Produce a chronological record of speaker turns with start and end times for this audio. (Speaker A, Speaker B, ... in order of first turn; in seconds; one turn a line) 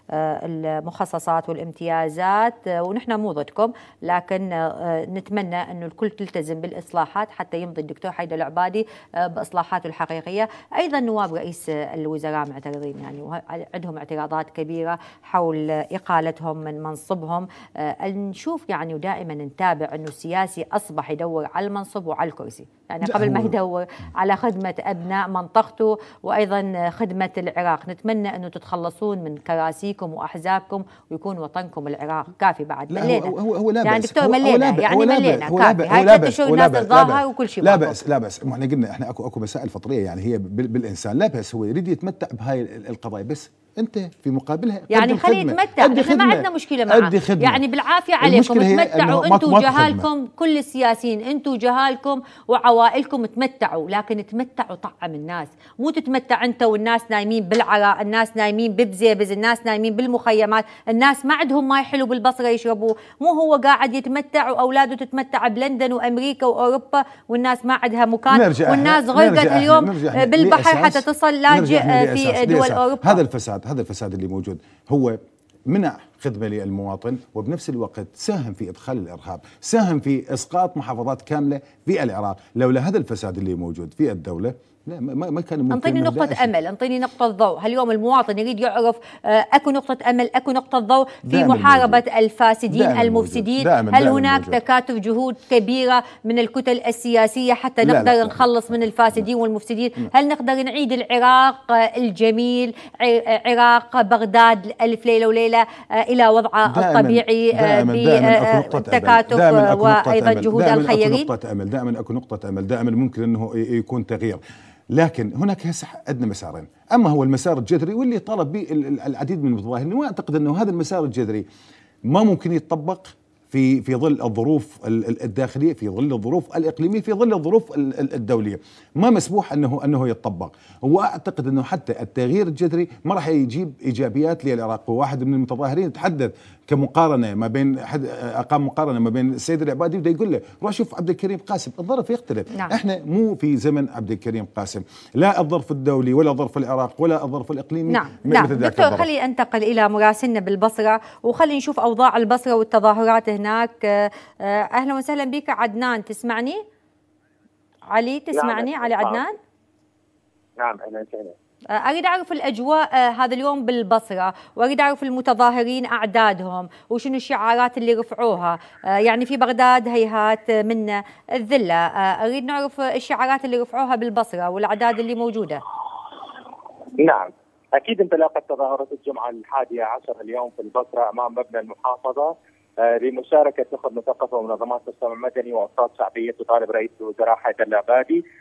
Speaker A: 0.1-33.3
Speaker B: 23.0-23.6
Speaker B: 32.9-47.6
Speaker A: 33.9-38.0
Speaker A: 44.9-73.2
Speaker B: 48.2-50.1
Speaker B: 68.3-86.5
Speaker A: 85.7-111.3
Speaker B: 91.2-92.0
Speaker B: 92.7-94.6
Speaker B: 97.8-98.5
Speaker B: 106.7-114.4
Speaker B: 114.9-121.5
Speaker B: 122.1-149.1
Speaker A: 147.9-156.6
Speaker A: 157.9-159.4
Speaker C: 158.4-159.2
Speaker C: 160.6-161.3
Speaker A: 161.7-175.6
Speaker C: 177.0-188.2